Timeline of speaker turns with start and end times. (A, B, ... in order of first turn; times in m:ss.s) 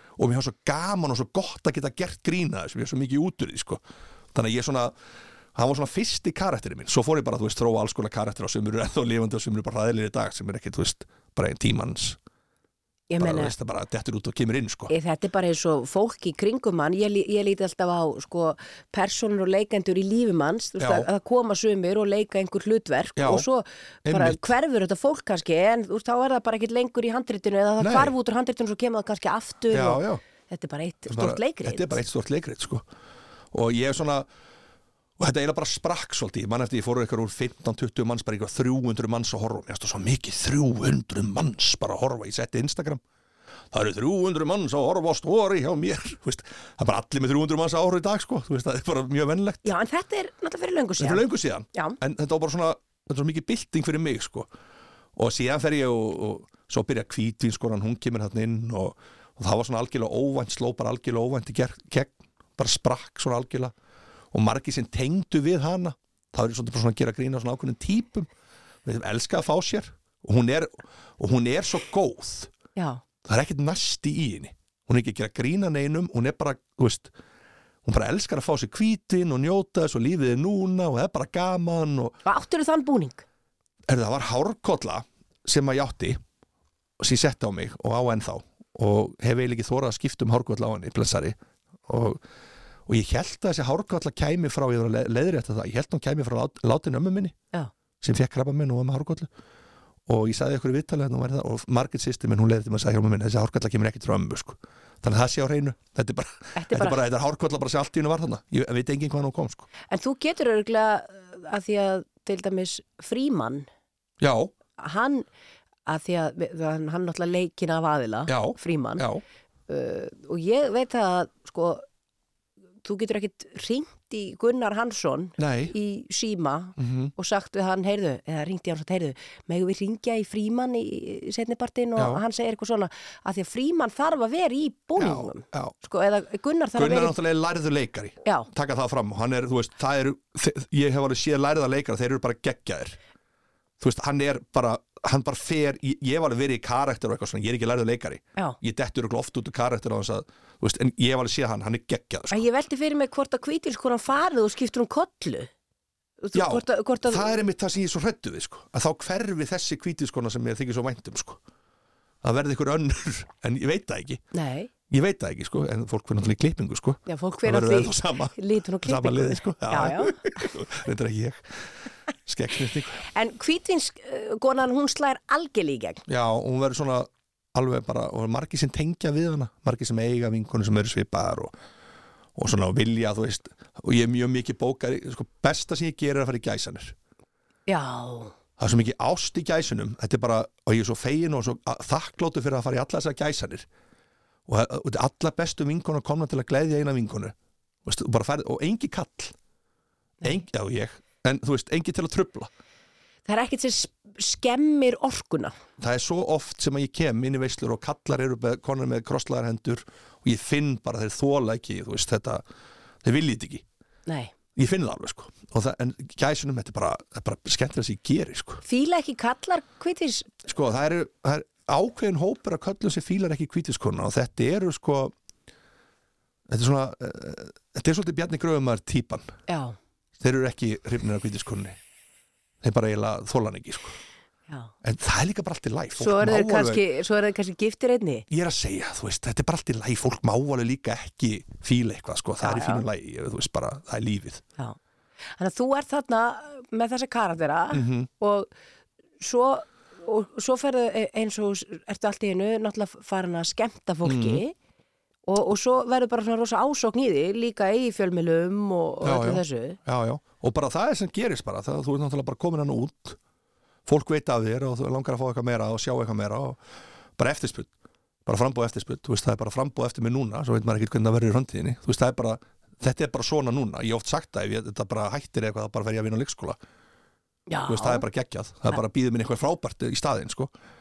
0:00.2-0:04.9 A
0:05.5-0:12.2 A
0:13.1-0:13.5 B
0:13.2-0:14.9 A
0:14.9-0:32.0 B
0:20.8-0:21.1 A
0:23.2-0:23.5 A
0:24.0-0:24.4 A
0:27.8-0:28.1 A
0:29.7-0:30.2 A
0:31.1-0:32.8 A
0:33.5-0:34.3 A
0:35.2-0:43.0 A
0:43.7-0:49.7 A
0:49.6-0:52.0 B
0:51.0-0:54.5 A
0:55.2-1:03.7 A
1:04.3-1:08.3 A
1:08.8-1:12.5 A
1:12.8-1:13.0 B
1:13.2-1:17.1 A
1:17.8-1:22.2 A
1:22.2-1:23.2 B
1:23.9-1:26.2 A
1:27.0-1:32.2 A
1:32.8-1:37.4 A
1:38.0-1:39.3 A
1:40.1-1:49.7 A
1:46.6-1:47.0 B
1:49.9-1:53.7 B
1:54.2-1:54.5 A
1:54.8-1:55.2 B
1:55.8-1:59.0 B
1:58.3-1:59.2 A
1:59.7-2:01.8 B
2:02.8-2:17.2 B
2:05.4-2:05.7 A
2:06.8-2:07.1 A
2:12.0-2:12.2 A
2:15.0-2:15.7 A
2:16.7-2:23.0 A
2:23.8-2:32.4 A
2:32.3-2:35.5 B
2:36.2-2:37.4 B
2:36.3-2:41.4 A
2:42.2-2:44.2 A
2:44.3-2:44.7 B
2:44.9-2:51.7 A
2:47.1-2:50.5 B
2:52.2-2:53.0 A
2:53.1-2:56.0 B
2:56.1-3:01.5 A
3:02.4-3:06.9 A
3:07.7-3:08.3 B
3:08.6-3:13.7 A
3:14.5-3:19.3 A
3:20.2-3:22.5 A
3:23.3-3:25.6 B
3:25.8-3:32.4 A
3:33.0-3:33.6 A
3:34.1-3:34.3 B
3:34.6-3:38.6 A
3:38.6-3:40.3 B
3:40.4-3:45.1 A
3:46.5-3:49.3 A
3:49.5-3:49.8 B
3:50.2-3:51.8 A
3:52.6-3:54.0 A
3:54.8-3:56.8 A
3:56.0-3:58.2 B
3:58.3-4:04.4 A
4:02.4-4:02.8 B
4:05.4-4:08.5 B
4:07.7-4:08.1 A
4:09.2-4:14.5 B
4:14.0-4:14.4 A
4:15.3-4:19.8 B
4:19.0-4:23.2 A
4:23.8-4:26.6 A
4:27.2-4:27.7 A
4:28.2-4:36.6 A
4:37.5-4:38.0 B
4:37.6-4:40.5 A